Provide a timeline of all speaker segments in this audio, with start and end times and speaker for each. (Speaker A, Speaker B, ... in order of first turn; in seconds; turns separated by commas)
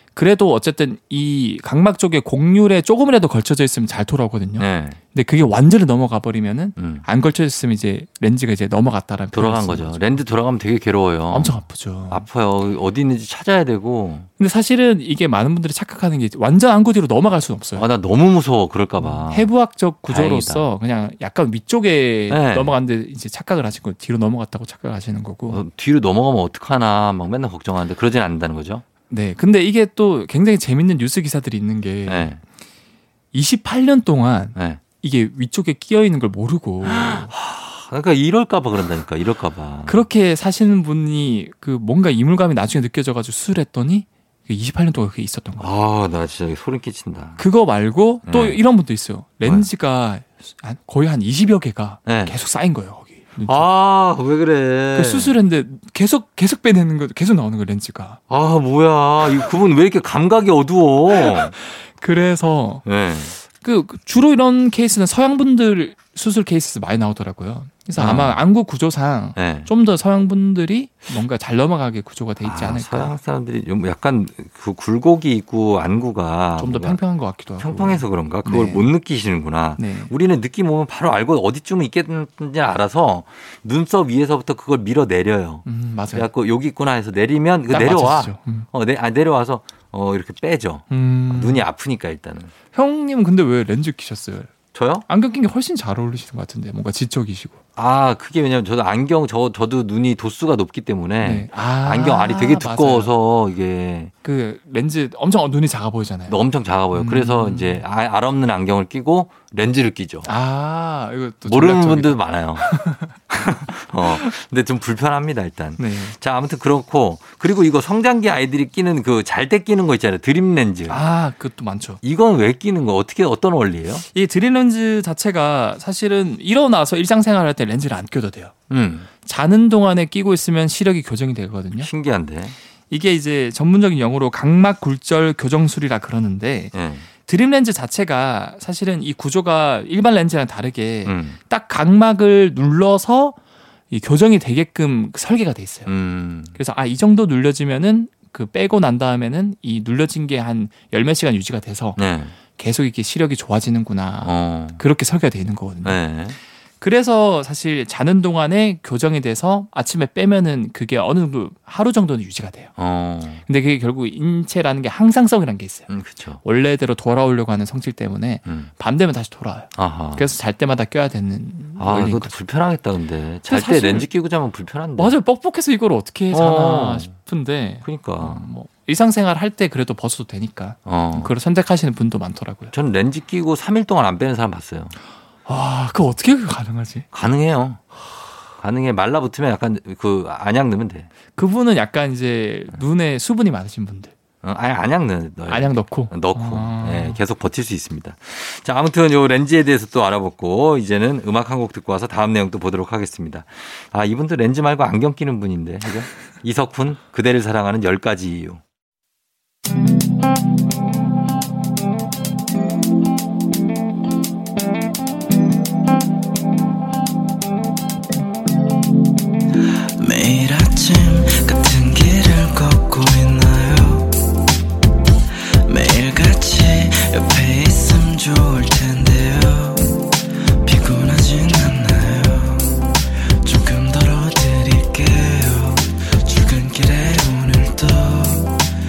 Speaker A: 0.1-10.2, Speaker B: 4.6-5.0, Speaker B: 6.8-7.0, Speaker B: 9.3-11.6, Speaker A: 11.3-12.3, Speaker B: 12.1-14.3, Speaker A: 14.4-17.9, Speaker B: 17.8-19.5, Speaker A: 19.0-25.6, Speaker B: 20.1-20.6, Speaker B: 22.3-22.8, Speaker B: 25.5-28.8, Speaker A: 29.1-32.4, Speaker B: 32.1-32.4, Speaker A: 33.3-37.3, Speaker B: 34.5-34.8, Speaker B: 36.8-40.0, Speaker A: 39.9-45.7, Speaker B: 45.6-47.4, Speaker A: 47.4-53.7, Speaker B: 48.3-48.6, Speaker B: 52.1-52.4, Speaker B: 53.5-55.4, Speaker A: 54.9-58.2, Speaker B: 58.3-61.5, Speaker A: 61.1-62.9, Speaker B: 62.9-63.4, Speaker A: 63.5-73.2, Speaker B: 68.0-68.4, Speaker B: 69.4-69.7, Speaker B: 72.4-77.0, Speaker A: 76.6-78.9, Speaker B: 77.6-92.5, Speaker A: 79.8-80.1, Speaker A: 85.7-86.3, Speaker A: 87.7-88.7, Speaker A: 90.9-91.7, Speaker A: 92.7-94.5, Speaker B: 94.7-95.1, Speaker A: 95.1-97.6, Speaker B: 97.8-104.1, Speaker A: 101.2-103.1, Speaker A: 104.2-106.4, Speaker B: 106.3-110.3, Speaker A: 106.9-107.8, Speaker A: 110.2-114.3, Speaker B: 111.5-112.7, Speaker B: 113.3-121.0, Speaker A: 115.8-116.2, Speaker A: 120.9-122.0, Speaker B: 122.0-124.0, Speaker A: 124.1-128.5, Speaker B: 128.7-129.1, Speaker A: 129.2-131.9, Speaker B: 131.8-132.6, Speaker A: 132.9-136.7, Speaker B: 136.7-137.1, Speaker A: 137.2-143.4, Speaker B: 141.1-141.4, Speaker A: 143.9-145.9, Speaker B: 145.9-146.6, Speaker A: 146.6-152.0, Speaker B: 152.0-152.3, Speaker A: 152.6-156.0, Speaker B: 154.2-154.8, Speaker B: 155.8-156.4, Speaker A: 156.8-162.7, Speaker B: 162.8-163.4, Speaker A: 163.5-165.9, Speaker B: 165.9-166.4, Speaker A: 166.4-172.3, Speaker B: 169.8-170.3, Speaker B: 171.8-175.2, Speaker A: 173.5-174.1, Speaker A: 175.0-182.7, Speaker B: 176.3-177.1, Speaker B: 177.8-178.5, Speaker B: 180.9-181.3, Speaker B: 182.7-184.9, Speaker A: 185.5-187.1, Speaker B: 187.1-187.8, Speaker B: 188.6-191.1, Speaker A: 191.3-194.1, Speaker B: 194.4-208.6, Speaker A: 195.5-197.2, Speaker C: 220.0-224.2, Speaker C: 225.7-230.1, Speaker C: 230.6-232.9, Speaker C: 233.4-238.6